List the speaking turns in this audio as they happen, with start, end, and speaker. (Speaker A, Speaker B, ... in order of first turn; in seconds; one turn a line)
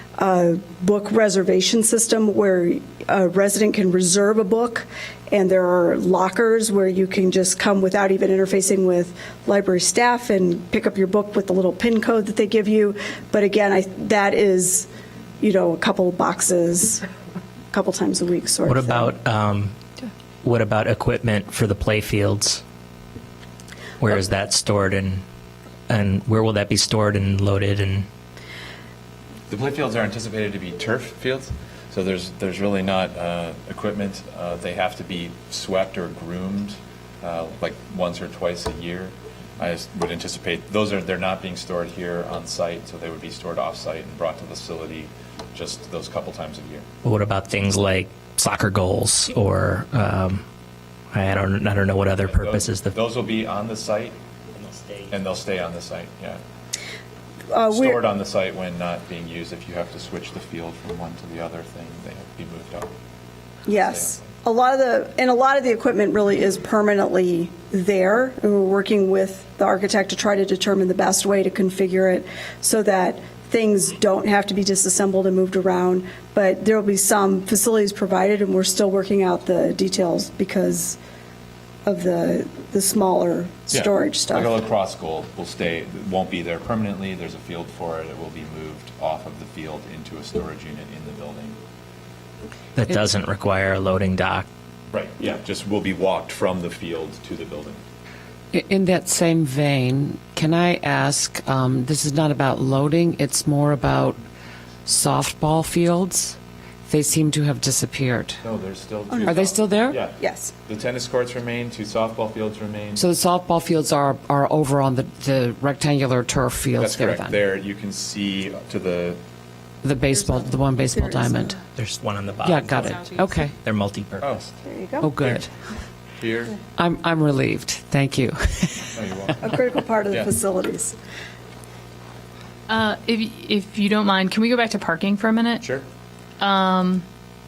Speaker A: 0.2-14.9
Speaker A: 15.4-17.0
Speaker A: 17.7-19.1
Speaker B: 18.7-19.7
Speaker B: 20.4-22.6
Speaker B: 24.0-25.2
Speaker B: 25.9-28.1
Speaker C: 29.5-46.9
Speaker B: 47.0-50.4
Speaker B: 51.1-52.9
Speaker C: 52.2-54.1
Speaker B: 54.6-55.1
Speaker C: 55.1-56.4
Speaker A: 57.5-58.0
Speaker C: 57.7-62.9
Speaker A: 63.6-81.0
Speaker C: 63.8-64.3
Speaker A: 81.8-84.6
Speaker C: 83.7-91.6
Speaker B: 92.8-94.5
Speaker C: 94.9-97.8
Speaker D: 98.5-104.2
Speaker D: 104.8-108.4
Speaker C: 108.4-113.0
Speaker A: 109.1-109.5
Speaker D: 109.2-110.0
Speaker A: 110.2-110.5
Speaker D: 113.0-117.4
Speaker C: 116.8-119.2
Speaker D: 119.8-121.6
Speaker A: 120.1-121.6
Speaker B: 121.7-124.2
Speaker D: 122.4-123.5
Speaker C: 124.2-124.5
Speaker A: 124.6-125.1
Speaker D: 125.0-125.5
Speaker C: 125.2-125.5
Speaker C: 126.2-126.6
Speaker D: 126.8-128.9
Speaker C: 128.9-129.4
Speaker A: 129.4-130.9
Speaker E: 132.7-135.6
Speaker E: 136.4-137.0